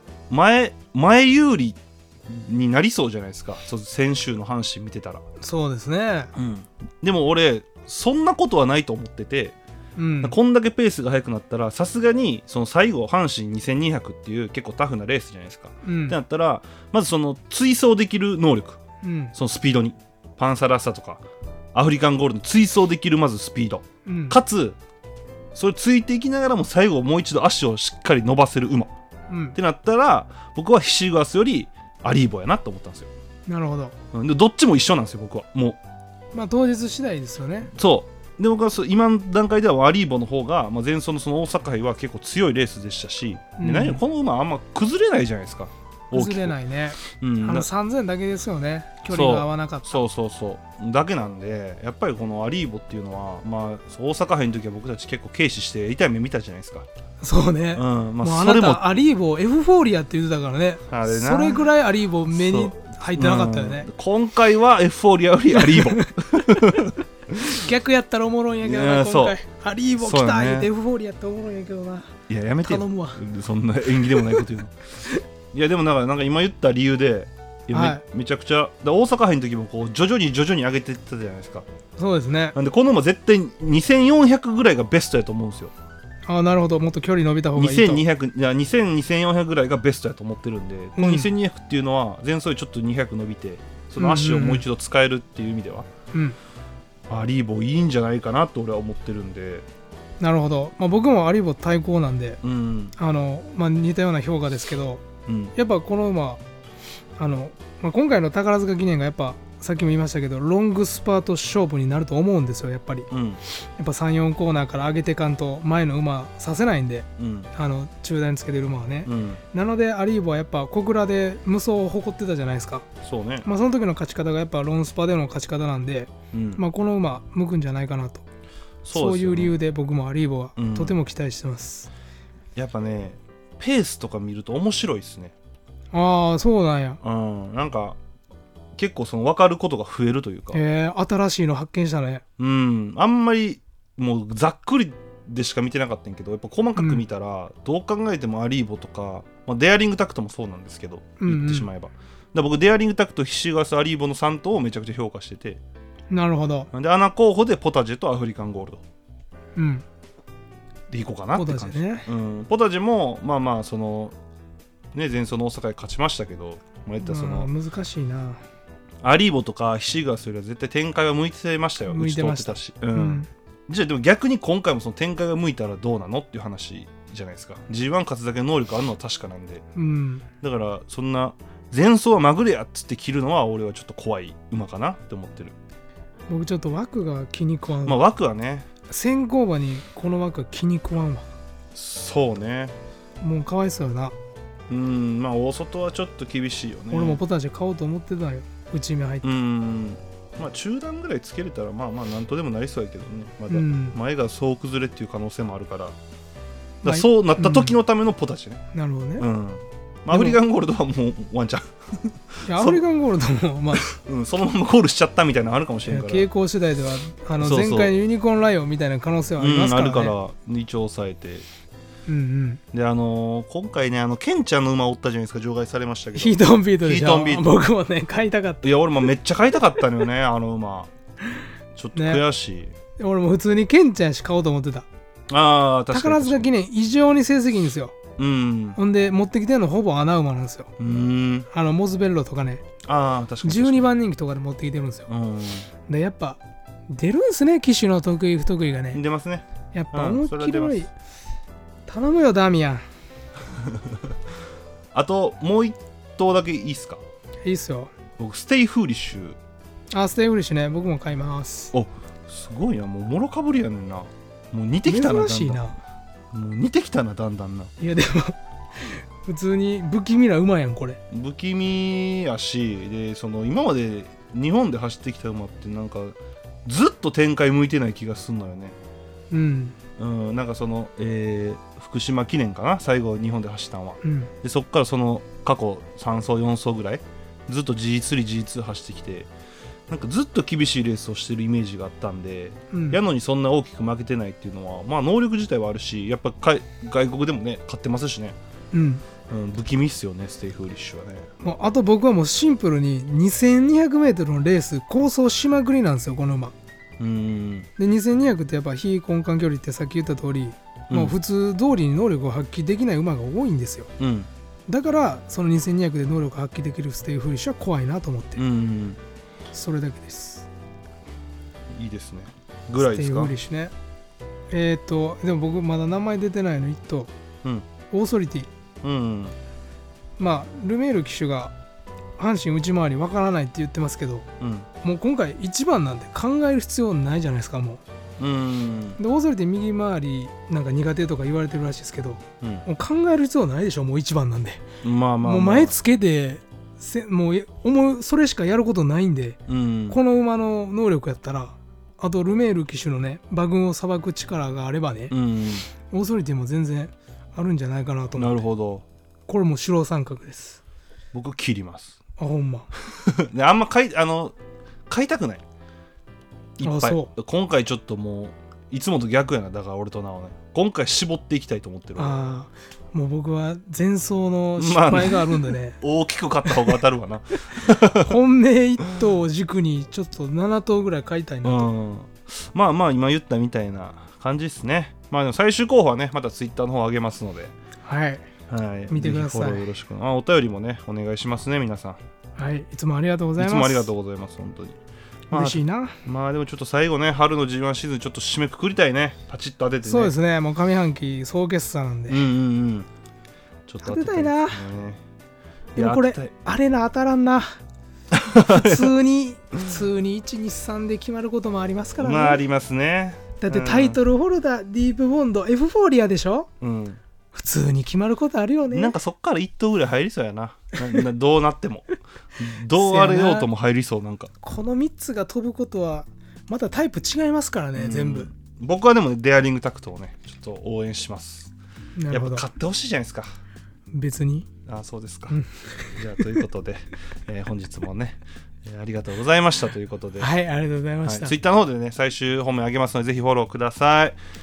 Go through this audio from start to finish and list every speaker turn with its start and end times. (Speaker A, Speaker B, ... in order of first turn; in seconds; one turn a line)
Speaker A: 0.3-5.2
Speaker B: 5.4-6.3
Speaker A: 6.3-9.5
Speaker B: 10.0-10.3
Speaker A: 10.2-18.8
Speaker B: 15.8-16.2
Speaker B: 19.0-19.3
Speaker A: 19.3-24.8
Speaker B: 24.1-24.4
Speaker A: 25.5-28.9
Speaker B: 29.3-29.6
Speaker A: 29.6-33.1
Speaker B: 33.5-33.9
Speaker A: 34.1-35.8
Speaker B: 36.3-37.7
Speaker A: 37.7-47.7
Speaker B: 43.6-44.0
Speaker B: 46.1-50.0
Speaker A: 49.1-56.9
Speaker B: 57.2-63.9
Speaker A: 57.7-58.8
Speaker A: 60.9-61.7
Speaker A: 62.3-67.5
Speaker B: 65.5-66.1
Speaker B: 67.4-73.2
Speaker A: 68.6-69.3
Speaker A: 70.0-70.7
Speaker A: 72.3-74.8
Speaker B: 74.1-74.4
Speaker A: 75.5-81.7
Speaker B: 77.7-78.0
Speaker B: 82.0-82.5
Speaker A: 82.5-85.7
Speaker B: 86.3-88.0
Speaker A: 87.5-95.9
Speaker B: 91.0-91.3
Speaker B: 94.0-94.6
Speaker B: 96.1-96.4
Speaker A: 97.1-99.7
Speaker B: 100.2-102.4
Speaker A: 102.4-102.9
Speaker B: 103.0-105.0
Speaker A: 105.2-105.5
Speaker B: 105.5-106.4
Speaker B: 107.2-122.8
Speaker A: 113.1-113.4
Speaker A: 117.2-117.5
Speaker A: 119.0-119.4
Speaker A: 123.0-123.5
Speaker B: 123.4-128.2
Speaker A: 126.3-126.6
Speaker A: 128.8-129.6
Speaker B: 128.9-131.9
Speaker A: 130.6-131.0
Speaker A: 132.6-135.3
Speaker B: 135.9-137.0
Speaker A: 137.0-138.0
Speaker A: 138.8-140.6
Speaker B: 140.5-142.2
Speaker A: 142.4-155.6
Speaker B: 146.8-147.0
Speaker B: 151.2-151.7
Speaker B: 156.1-156.7
Speaker A: 156.7-158.8
Speaker B: 159.6-159.8
Speaker A: 160.9-164.2
Speaker B: 161.3-162.1
Speaker A: 164.9-167.5
Speaker B: 167.0-168.4
Speaker A: 169.0-179.6
Speaker B: 171.9-173.3
Speaker B: 179.7-180.2
Speaker A: 180.4-185.5
Speaker B: 186.3-188.0
Speaker A: 187.8-188.7
Speaker B: 188.9-191.3
Speaker A: 191.7-192.8
Speaker B: 193.2-194.1
Speaker A: 194.7-197.2
Speaker B: 196.9-199.3
Speaker A: 199.2-205.9
Speaker B: 203.5-203.9
Speaker B: 206.8-207.7
Speaker A: 206.8-208.6
Speaker B: 208.7-209.2
Speaker A: 209.2-212.8
Speaker B: 210.1-210.4
Speaker B: 212.4-213.8
Speaker A: 213.7-216.3
Speaker B: 215.9-220.1
Speaker A: 217.4-217.9
Speaker A: 219.4-221.4
Speaker B: 222.1-222.6
Speaker A: 222.7-227.5
Speaker B: 226.1-228.6
Speaker A: 228.6-230.9
Speaker A: 231.7-232.7
Speaker B: 231.9-232.2
Speaker B: 233.0-234.9
Speaker A: 235.3-236.5
Speaker B: 235.9-238.0
Speaker A: 238.2-238.8
Speaker B: 238.8-240.7
Speaker A: 240.8-241.5
Speaker B: 241.5-242.6
Speaker A: 242.8-243.9
Speaker B: 243.4-245.1
Speaker A: 245.1-245.7
Speaker B: 245.9-246.4
Speaker B: 246.9-249.0
Speaker A: 248.9-250.8
Speaker B: 249.7-250.9
Speaker B: 251.9-252.8
Speaker A: 253.6-254.2
Speaker A: 254.9-257.0
Speaker B: 257.4-257.9
Speaker A: 258.2-259.4
Speaker B: 259.9-261.7
Speaker A: 261.7-265.6
Speaker B: 264.9-265.8
Speaker A: 266.3-267.7
Speaker B: 267.8-271.0
Speaker A: 271.1-278.8
Speaker B: 279.3-279.8
Speaker A: 280.0-289.3
Speaker B: 284.0-284.3
Speaker A: 289.9-298.4
Speaker B: 292.7-293.0
Speaker B: 298.7-299.0
Speaker A: 299.3-301.3
Speaker B: 301.4-306.5
Speaker A: 307.0-307.7
Speaker B: 307.8-313.9
Speaker A: 310.9-311.1
Speaker A: 314.0-314.3
Speaker B: 314.7-318.4
Speaker A: 318.4-319.0
Speaker B: 319.5-320.5
Speaker A: 321.7-323.3
Speaker B: 322.8-323.7
Speaker B: 324.5-327.1
Speaker B: 327.9-328.5
Speaker A: 328.8-329.4
Speaker B: 330.2-331.5
Speaker B: 332.2-334.3
Speaker A: 334.4-334.7
Speaker B: 334.8-337.8
Speaker A: 338.2-339.0
Speaker B: 339.0-344.6
Speaker A: 344.8-345.8
Speaker B: 345.2-355.1
Speaker A: 349.5-350.0
Speaker A: 355.1-355.6
Speaker B: 355.8-358.4
Speaker A: 358.2-358.8
Speaker B: 359.3-360.6
Speaker A: 361.1-362.0
Speaker B: 362.2-362.7
Speaker A: 362.8-364.3
Speaker A: 364.9-365.4
Speaker A: 366.6-372.2
Speaker B: 366.6-367.1
Speaker B: 372.0-375.8
Speaker A: 374.6-378.2
Speaker B: 376.5-376.8
Speaker B: 377.9-381.7
Speaker A: 381.4-387.5
Speaker B: 387.8-388.2
Speaker A: 388.5-392.0
Speaker B: 388.9-389.6
Speaker B: 392.4-393.9
Speaker A: 393.4-394.8
Speaker B: 395.3-396.0
Speaker A: 395.3-400.1
Speaker B: 399.8-402.2
Speaker A: 402.1-402.9
Speaker A: 403.7-405.0
Speaker B: 403.8-404.6
Speaker A: 405.8-406.3
Speaker B: 405.8-407.6
Speaker A: 408.1-408.9
Speaker B: 408.4-412.4
Speaker A: 412.0-414.0
Speaker B: 413.4-416.5
Speaker A: 416.6-417.0
Speaker B: 417.3-418.9
Speaker A: 418.7-424.3
Speaker B: 422.7-423.5
Speaker B: 424.4-428.3
Speaker A: 427.7-431.5
Speaker B: 432.0-432.4
Speaker A: 432.1-433.3
Speaker B: 433.9-434.5
Speaker A: 434.6-435.4
Speaker B: 435.3-436.4
Speaker A: 435.9-440.3
Speaker B: 440.2-441.4
Speaker A: 441.0-444.1